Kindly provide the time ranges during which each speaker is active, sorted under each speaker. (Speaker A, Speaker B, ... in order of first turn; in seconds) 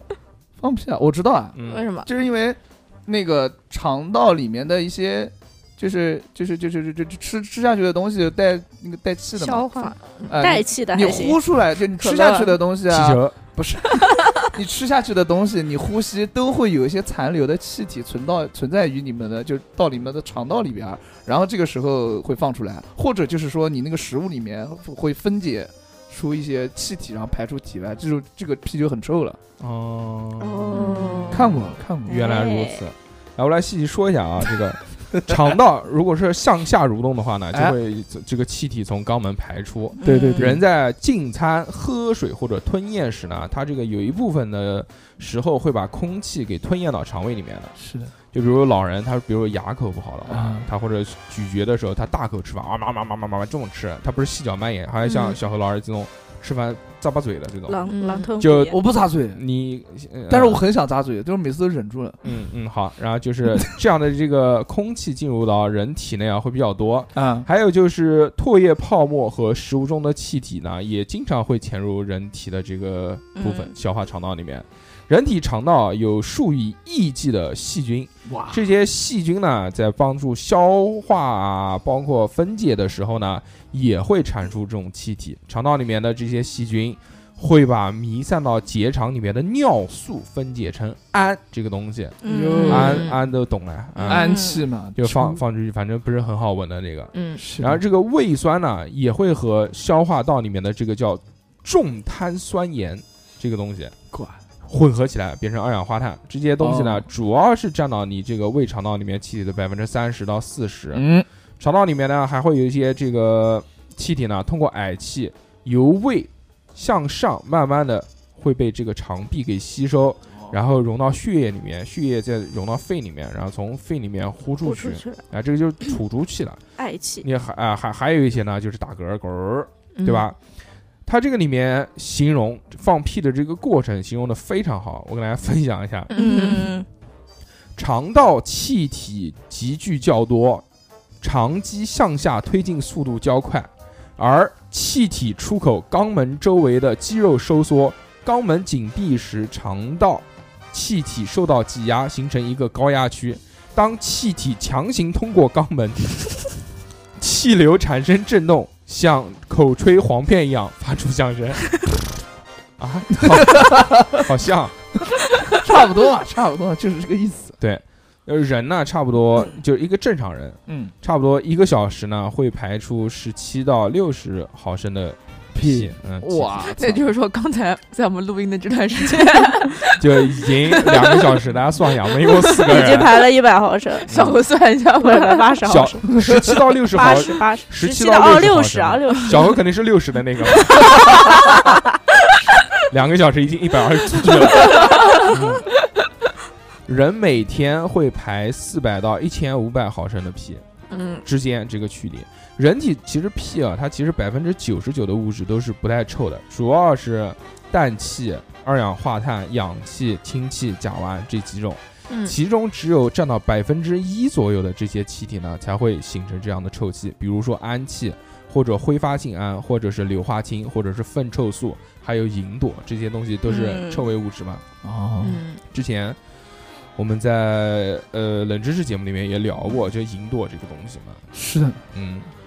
Speaker A: 0.6-9.7, 10.3-29.4, 31.3-32.2, 40.0-40.6, 47.8-48.1, 50.2-50.7, 58.7-59.4, 60.3-62.2, 67.1-67.5, 78.3-78.6, 92.2-93.1, 94.0-95.4, 97.3-97.8, 104.1-104.4, 106.6-107.0, 110.9-111.3, 163.2-164.2, 165.5-167.6, 170.7-170.9, 175.5-177.1, 186.1-186.6, 224.8-225.4, 231.3-231.8
Speaker B: 1.5-1.8, 12.9-13.3, 29.6-30.9, 32.1-47.7, 48.3-57.8, 58.4-58.8, 59.3-60.6, 62.2-94.4, 95.0-103.9, 104.6-111.0, 111.6-126.6, 127.2-130.4, 131.0-136.1, 137.8-140.6, 141.2-156.5, 157.2-162.0, 162.8-164.8, 167.6-176.6, 180.0-183.2, 184.1-184.4, 185.6-191.2, 192.9-195.7, 196.9-200.6, 201.2-224.6, 225.7-226.2, 226.9-231.2, 231.9-232.3
Speaker C: 1.6-2.1, 9.4-10.4, 12.0-12.6, 30.7-31.4, 40.0-40.3, 57.9-58.3, 92.6-93.2, 97.1-97.4, 129.9-130.3, 136.1-136.7, 176.7-180.0, 180.7-181.3, 182.2-182.7, 184.0-185.5, 194.8-195.2, 200.9-201.2, 212.1-212.3, 225.2-225.6
Speaker D: 9.4-11.4, 30.4-32.9, 40.0-40.5, 57.7-58.8, 73.3-73.7, 92.2-92.9, 94.0-94.6, 124.6-125.2, 126.8-127.3, 136.1-136.8, 182.6-184.1, 185.0-186.1, 186.9-189.6, 223.4-224.0